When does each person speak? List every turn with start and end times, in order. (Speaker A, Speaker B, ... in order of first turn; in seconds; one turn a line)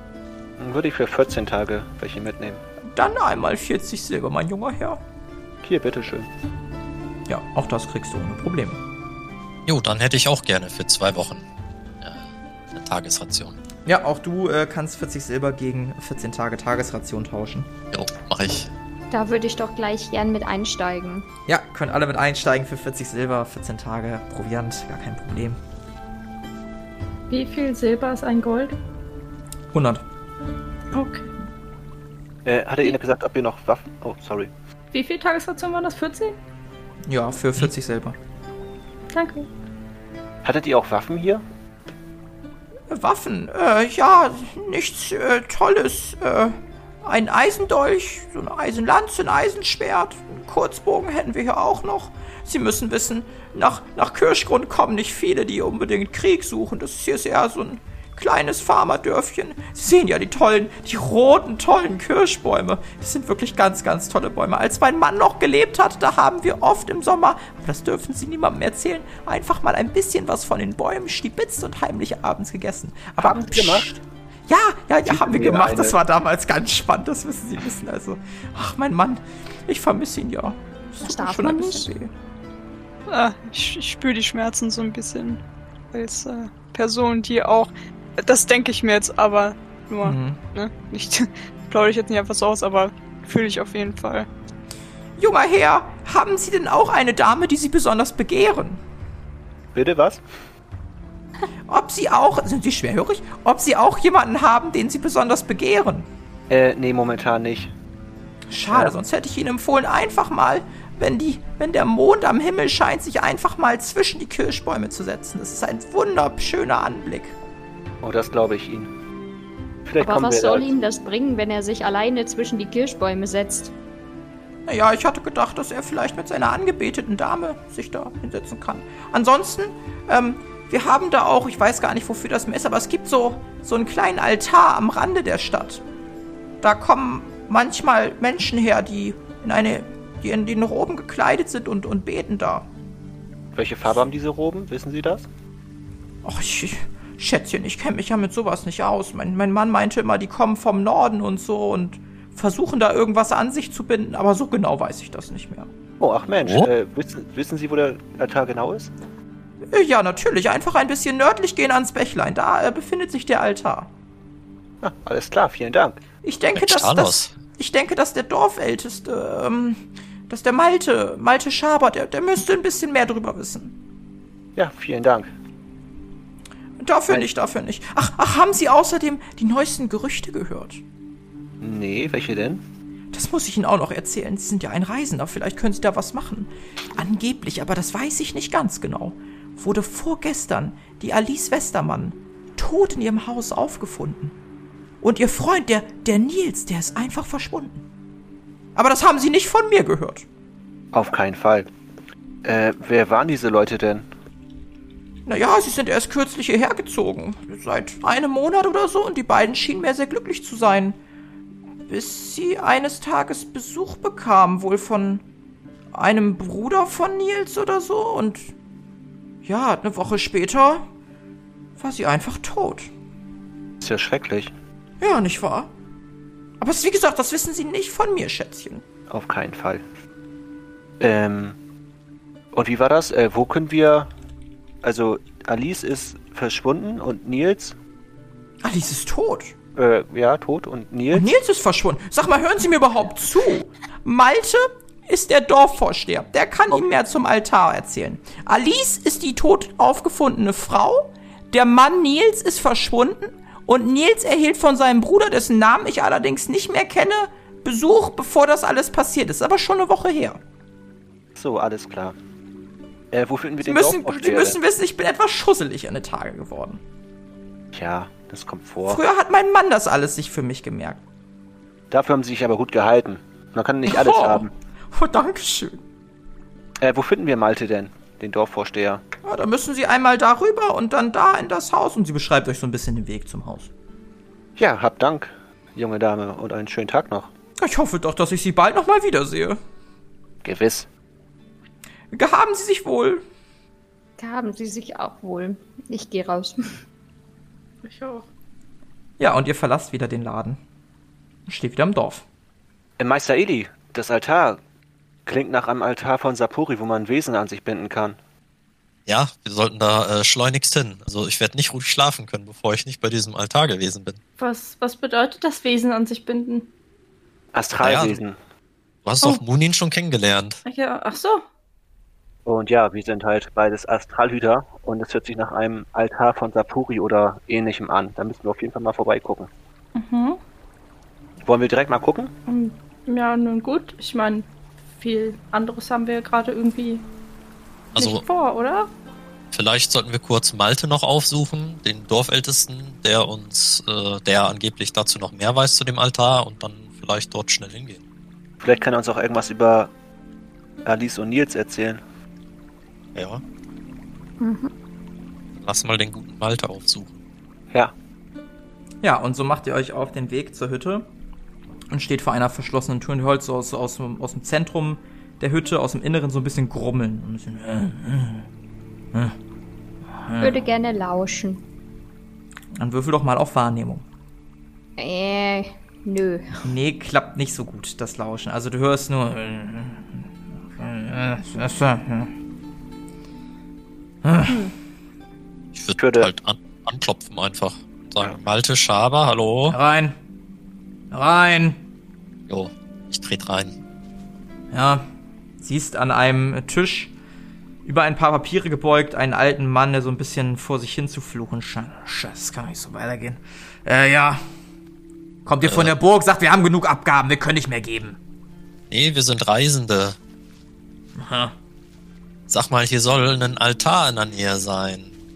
Speaker A: 0.6-2.6
Speaker B: 2.9-5.0
Speaker A: 5.6-6.3
Speaker B: 7.3-8.8
Speaker C: 9.7-11.4
Speaker C: 12.0-13.6
Speaker B: 13.8-17.7
Speaker C: 17.9-18.7
Speaker D: 19.1-21.3
Speaker B: 21.5-25.6
Speaker E: 27.3-28.7
Speaker B: 29.7-30.0
Speaker E: 30.9-31.3
Speaker A: 32.4-34.5
Speaker E: 34.9-36.4
Speaker B: 37.1-38.1
Speaker E: 39.1-39.5
Speaker A: 40.4-41.4
Speaker B: 42.9-82.1
Speaker A: 73.2-73.9
Speaker A: 75.1-76.0
Speaker D: 81.0-81.9
Speaker F: 83.1-85.4
Speaker F: 85.9-94.3
Speaker B: 90.0-90.4
Speaker B: 95.2-98.8
Speaker A: 99.7-100.2
Speaker B: 101.7-106.0
Speaker A: 106.5-107.7
Speaker B: 108.5-117.3
Speaker A: 108.7-108.9
Speaker A: 118.0-118.9
Speaker A: 119.8-120.8
Speaker D: 120.0-123.7
Speaker B: 124.7-135.8
Speaker B: 136.6-142.7
Speaker A: 143.5-145.3
Speaker B: 146.2-155.7
Speaker A: 156.0-158.9
Speaker B: 159.7-163.9
Speaker A: 164.8-166.0
Speaker B: 166.2-173.7
Speaker C: 166.5-167.3
Speaker A: 174.6-175.3
Speaker B: 176.8-180.8
Speaker A: 181.6-182.6
Speaker B: 183.1-194.3
Speaker B: 195.0-197.8
Speaker B: 198.8-200.2
Speaker A: 200.9-201.7
Speaker A: 202.4-204.1
Speaker B: 205.2-211.0
Speaker B: 211.9-215.2
Speaker B: 215.9-218.5
Speaker B: 219.4-220.9
Speaker B: 221.8-222.9
Speaker A: 223.8-224.5
Speaker B: 225.0-225.7
Speaker B: 226.6-228.8
Speaker A: 229.1-229.8
Speaker A: 231.0-231.6
Speaker A: 232.5-234.1
Speaker A: 234.8-237.8
Speaker B: 238.6-239.5
Speaker A: 239.7-241.3
Speaker B: 241.1-260.4
Speaker A: 261.3-262.1
Speaker A: 263.1-264.6
Speaker B: 263.6-266.8
Speaker A: 267.7-269.0
Speaker B: 268.9-271.0
Speaker A: 271.9-274.5
Speaker B: 273.9-275.8
Speaker A: 276.8-279.0
Speaker B: 279.2-283.7
Speaker A: 284.6-287.3
Speaker B: 287.6-289.6
Speaker A: 290.4-290.9
Speaker B: 292.1-293.2
Speaker D: 294.2-296.8
Speaker E: 297.8-298.3
Speaker B: 299.2-300.6
Speaker B: 301.5-302.2
Speaker A: 303.0-304.6
Speaker A: 305.2-308.2
Speaker C: 309.1-314.2
Speaker E: 314.4-316.7
Speaker A: 317.5-318.4
Speaker C: 317.8-318.2
Speaker C: 319.0-320.6
Speaker E: 320.6-321.4
Speaker A: 322.4-329.5
Speaker E: 329.9-330.4
Speaker A: 331.4-332.3
Speaker E: 332.5-337.0
Speaker C: 337.9-338.2
Speaker E: 337.9-338.9
Speaker C: 339.5-348.0
Speaker A: 348.6-349.9
Speaker A: 350.8-352.0
Speaker C: 353.1-353.4
Speaker D: 354.4-354.7
Speaker C: 355.5-357.2
Speaker B: 359.0-361.1
Speaker B: 361.9-368.4
Speaker B: 370.2-370.6
Speaker D: 370.4-371.6
Speaker B: 372.8-374.0
Speaker D: 375.0-376.6
Speaker B: 376.6-380.1
Speaker B: 380.7-382.3
Speaker B: 384.2-384.7
Speaker C: 385.7-389.8
Speaker A: 386.0-386.3
Speaker B: 389.7-390.1
Speaker B: 391.1-391.8
Speaker C: 392.5-393.7
Speaker B: 394.7-395.0
Speaker B: 395.6-397.1
Speaker B: 397.8-404.4
Speaker B: 405.4-408.2
Speaker C: 405.6-405.9
Speaker C: 408.9-410.2
Speaker B: 411.1-411.5
Speaker C: 412.5-415.1